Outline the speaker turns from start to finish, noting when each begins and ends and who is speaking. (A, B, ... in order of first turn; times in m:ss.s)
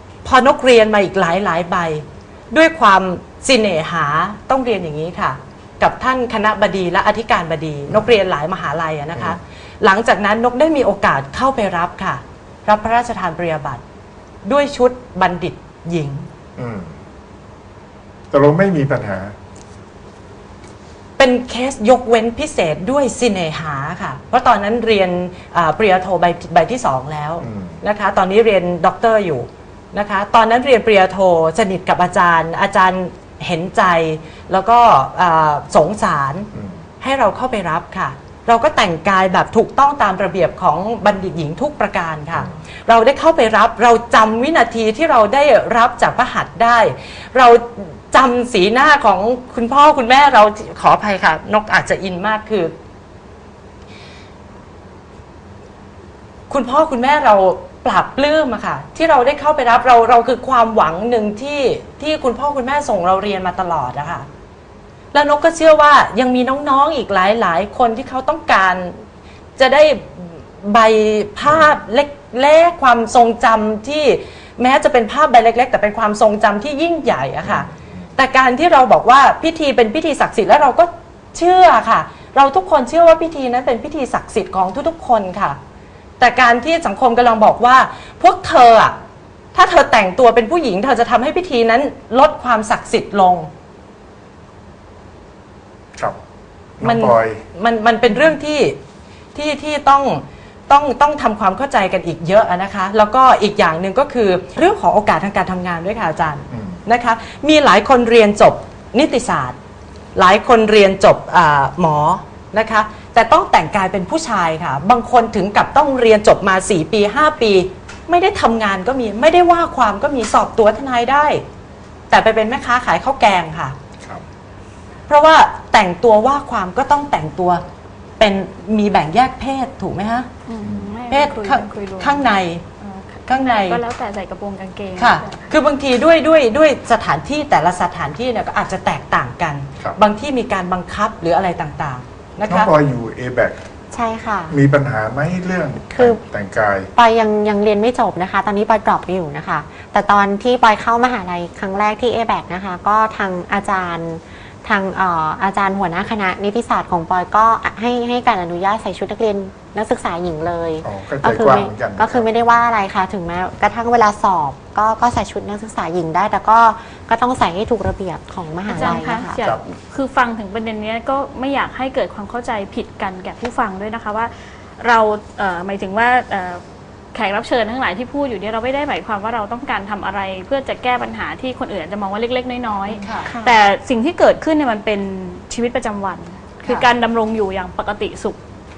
0:00.2-0:13.8 A
0:14.4-0:16.2 A
0:16.6-0:16.9 B
0:18.3-0:19.3 B
0:21.2-0:36.5 A
0:27.4-0:27.8 B
0:36.5-0:36.8 B
0:37.0-0:52.8 A
0:56.5-1:04.3 A
1:05.1-1:09.0 A
1:09.6-1:25.6 A
1:17.4-1:17.7 B
1:26.2-1:29.0 A
1:29.5-1:33.5 A
1:36.8-1:37.4 B
1:36.8-1:38.8 A
1:39.3-1:49.6 A
1:46.5-1:46.8 B
1:50.2-2:01.4 A
2:02.1-2:03.8 A
2:05.1-2:07.6 A
2:08.2-2:10.3 A
2:10.5-2:15.5 C
2:10.6-2:10.9 B
2:11.1-2:12.6 A
2:13.3-2:13.8 A
2:15.0-2:22.7 A
2:22.5-2:23.6 B
2:23.9-2:24.6 D
2:24.5-2:26.9 B
2:25.9-2:26.2 D
2:26.9-2:49.4 D
2:40.8-2:42.3 B
2:48.7-2:56.6 C
2:48.8-2:49.6 B
2:57.1-3:08.4 C
3:03.0-3:03.3 A
3:03.2-3:03.6 D